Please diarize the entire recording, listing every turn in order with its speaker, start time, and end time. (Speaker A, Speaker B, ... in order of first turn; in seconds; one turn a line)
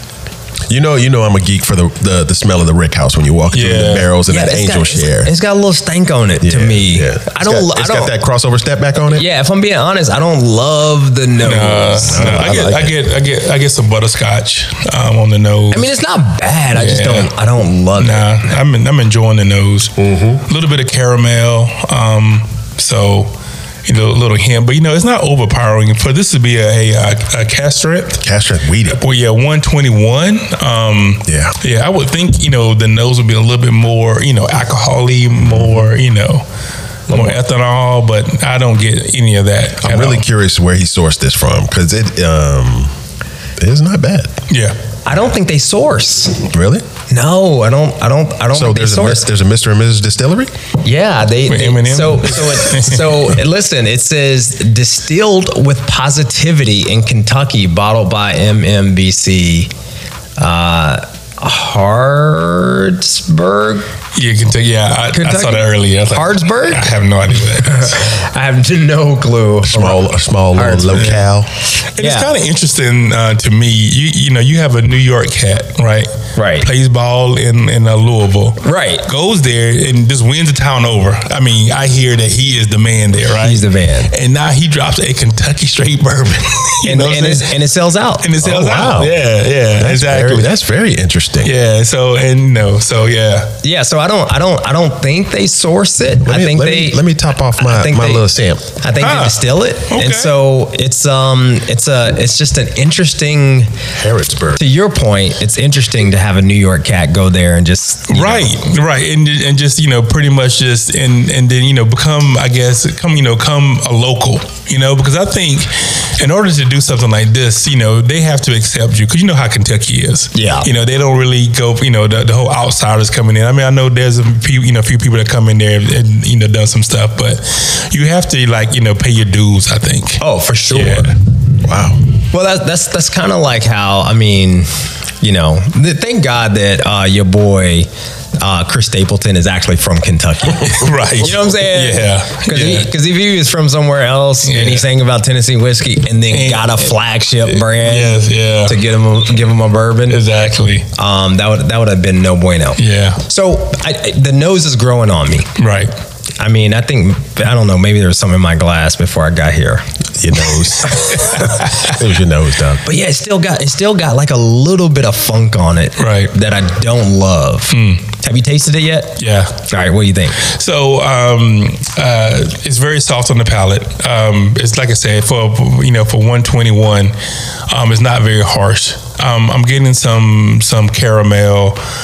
Speaker A: 0.7-5.3
Speaker B: 3.5-4.1
Speaker C: 4.3-8.1
Speaker A: 6.4-9.2
Speaker C: 9.1-12.5
Speaker B: 11.4-15.9
Speaker A: 12.0-13.0
Speaker C: 15.7-18.3
Speaker B: 16.7-17.3
Speaker B: 17.9-23.3
Speaker A: 20.0-20.4
Speaker B: 23.8-28.2
Speaker A: 28.2-29.0
Speaker B: 29.0-36.4
Speaker A: 31.2-31.6
Speaker A: 35.4-35.9
Speaker C: 37.1-37.4
Speaker B: 37.1-40.2
Speaker A: 39.8-42.9
Speaker A: 43.6-44.3
Speaker B: 44.5-44.7
Speaker C: 45.0-46.5
Speaker A: 46.5-46.8
Speaker C: 47.1-49.3
Speaker A: 48.5-50.5
Speaker C: 50.8-59.7
Speaker B: 51.5-53.3
Speaker C: 60.4-63.9
Speaker B: 64.1-68.1
Speaker C: 65.1-66.8
Speaker C: 67.6-71.2
Speaker A: 69.6-71.5
Speaker B: 70.9-71.3
Speaker B: 71.9-87.5
Speaker C: 72.0-72.3
Speaker C: 76.3-76.7
Speaker C: 78.6-79.0
Speaker C: 83.4-84.1
Speaker C: 86.8-88.3
Speaker B: 88.2-90.5
Speaker A: 88.4-89.2
Speaker A: 89.7-91.5
Speaker B: 91.4-93.5
Speaker C: 93.6-97.0
Speaker A: 96.2-98.7
Speaker C: 97.6-98.2
Speaker C: 98.8-103.7
Speaker B: 99.0-100.3
Speaker A: 104.0-104.6
Speaker C: 104.6-108.5
Speaker B: 108.1-131.1
Speaker C: 120.3-120.7
Speaker C: 130.2-131.1
Speaker A: 131.6-132.0
Speaker C: 132.3-134.7
Speaker C: 135.2-150.2
Speaker B: 140.6-142.9
Speaker B: 144.4-144.8
Speaker B: 146.3-148.8
Speaker B: 150.1-150.9
Speaker C: 150.9-155.5
Speaker B: 152.8-153.2
Speaker B: 155.6-155.9
Speaker C: 156.4-159.8
Speaker A: 160.2-162.8
Speaker C: 160.9-161.5
Speaker B: 161.2-161.9
Speaker C: 162.8-170.4
Speaker B: 166.0-166.3
Speaker B: 167.7-168.1
Speaker B: 169.2-169.6
Speaker B: 170.4-177.1
Speaker B: 177.7-181.8